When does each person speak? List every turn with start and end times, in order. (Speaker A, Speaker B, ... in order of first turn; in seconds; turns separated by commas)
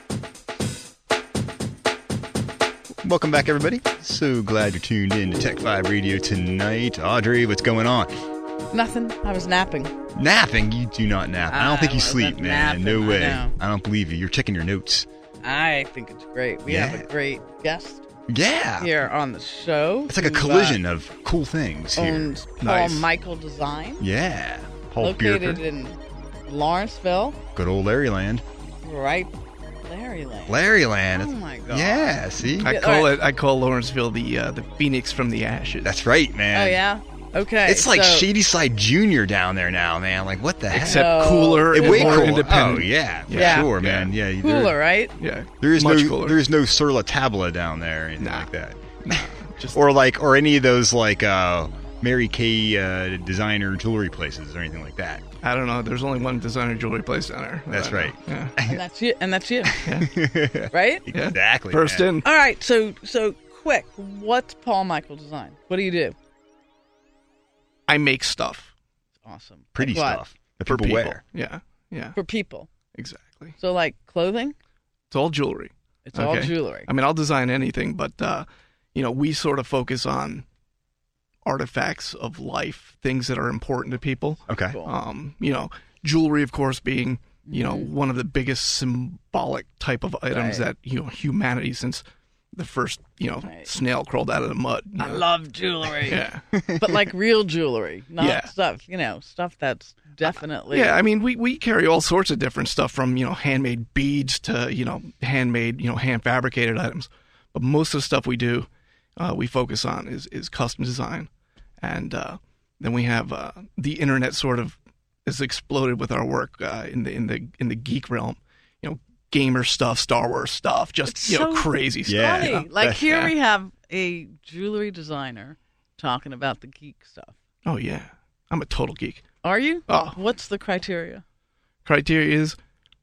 Speaker A: 3.0-8.1, Speaker B: 8.7-9.9, Speaker A: 10.1-15.1, Speaker B: 11.5-13.5, Speaker B: 15.4-18.0, Speaker A: 16.6-17.1, Speaker A: 18.3-18.9, Speaker B: 18.8-20.8, Speaker A: 20.1-22.3, Speaker B: 21.9-24.0, Speaker C: 22.6-23.1, Speaker A: 24.0-25.6, Speaker B: 25.0-27.4, Speaker A: 27.5-28.4, Speaker B: 28.8-29.3, Speaker B: 29.8-30.6, Speaker A: 30.5-32.7, Speaker B: 31.1-33.2, Speaker C: 32.6-35.9, Speaker A: 35.8-36.8, Speaker B: 36.5-38.3, Speaker A: 37.6-44.8, Speaker C: 40.7-44.1, Speaker B: 40.8-42.5, Speaker B: 43.3-43.7, Speaker B: 44.4-45.1, Speaker C: 45.2-46.4, Speaker A: 45.6-55.2, Speaker C: 48.2-48.5, Speaker C: 49.0-49.8, Speaker C: 55.4-58.5, Speaker A: 57.7-58.8, Speaker B: 58.6-59.8, Speaker C: 59.8-60.2, Speaker A: 59.9-62.1, Speaker B: 60.7-61.0, Speaker C: 61.1-62.3, Speaker B: 62.2-66.1, Speaker C: 67.9-68.7, Speaker B: 69.2-70.2, Speaker A: 69.7-71.2, Speaker C: 70.6-72.2, Speaker B: 72.1-72.7, Speaker C: 72.9-73.5, Speaker B: 73.6-74.5, Speaker C: 75.1-80.4, Speaker B: 76.0-76.9, Speaker C: 81.4-95.3, Speaker A: 84.5-84.8, Speaker B: 87.5-87.9, Speaker B: 90.3-90.7, Speaker B: 93.4-93.7, Speaker B: 95.0-96.2, Speaker C: 96.0-96.5, Speaker A: 96.5-96.9, Speaker B: 96.8-101.0, Speaker C: 98.2-98.5, Speaker C: 100.2-111.3, Speaker C: 111.8-122.7, Speaker B: 121.1-127.3, Speaker A: 122.0-123.3, Speaker C: 127.6-129.2, Speaker B: 129.4-131.2, Speaker C: 129.9-130.2, Speaker C: 131.8-132.6